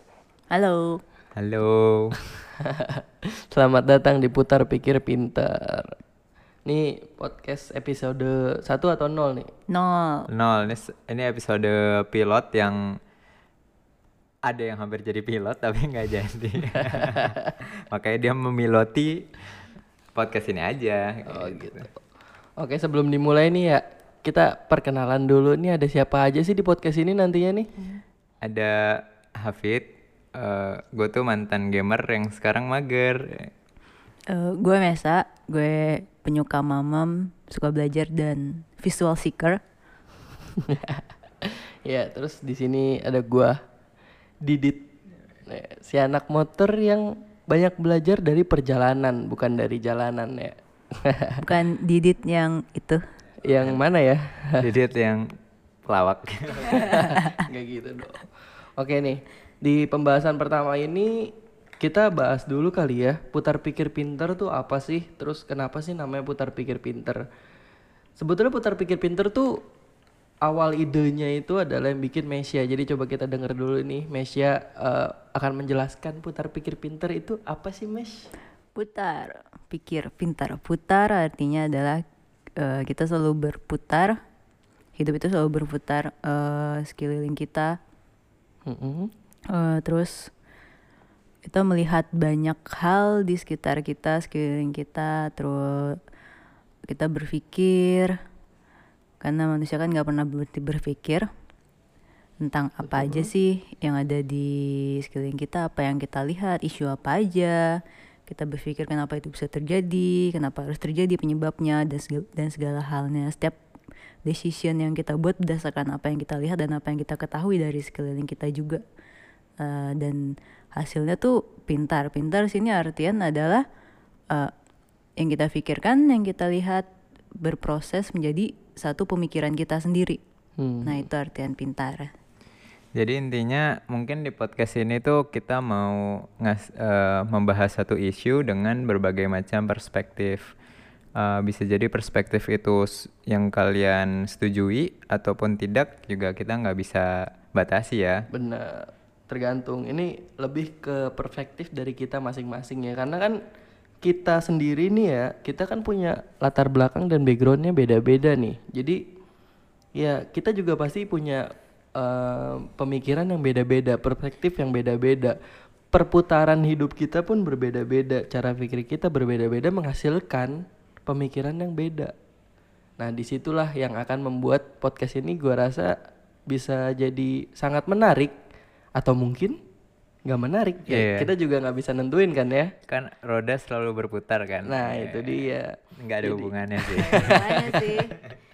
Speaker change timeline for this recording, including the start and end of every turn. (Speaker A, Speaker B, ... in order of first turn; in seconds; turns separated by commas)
Speaker A: 0.5-1.0, Speaker B: 1.4-2.2, Speaker C: 2.6-5.9, Speaker C: 6.7-9.5, Speaker A: 9.7-10.3, Speaker B: 10.3-12.8, Speaker B: 14.5-17.4, Speaker B: 17.9-19.3, Speaker B: 20.1-21.9, Speaker C: 21.3-21.9, Speaker C: 22.6-27.7, Speaker B: 28.4-28.8, Speaker B: 29.4-29.9, Speaker B: 30.4-33.5, Speaker A: 34.3-39.6, Speaker C: 40.7-43.6, Speaker C: 44.4-44.9, Speaker C: 45.5-51.4, Speaker A: 51.4-53.0, Speaker C: 53.5-54.7, Speaker B: 54.6-55.2, Speaker B: 55.9-57.0, Speaker C: 56.7-58.3, Speaker A: 57.0-57.3, Speaker C: 58.8-61.1, Speaker C: 61.8-67.2, Speaker C: 68.2-69.5, Speaker C: 70.4-78.3, Speaker A: 78.8-82.0, Speaker A: 82.6-84.2, Speaker A: 85.0-87.8, Speaker C: 88.7-89.1, Speaker A: 89.5-90.3, Speaker A: 91.5-96.0, Speaker A: 96.9-98.1, Speaker A: 99.2-101.3, Speaker A: 102.4-107.6, Speaker C: 102.8-103.3, Speaker A: 108.3-113.6, Speaker A: 114.2-118.8, Speaker A: 119.6-120.2, Speaker A: 120.8-123.7, Speaker A: 125.2-126.9, Speaker A: 127.4-130.2, Speaker C: 130.6-131.0, Speaker A: 130.8-132.1, Speaker B: 133.0-140.4, Speaker B: 141.2-148.2, Speaker C: 148.3-153.3, Speaker C: 154.0-159.0, Speaker C: 160.0-161.4, Speaker C: 162.0-165.4, Speaker C: 165.9-172.1, Speaker C: 173.0-175.9, Speaker C: 176.5-178.3, Speaker C: 179.0-179.6, Speaker C: 180.2-182.7, Speaker B: 180.9-181.3, Speaker B: 182.9-185.4, Speaker C: 184.7-187.8, Speaker B: 186.0-187.9, Speaker A: 187.1-188.2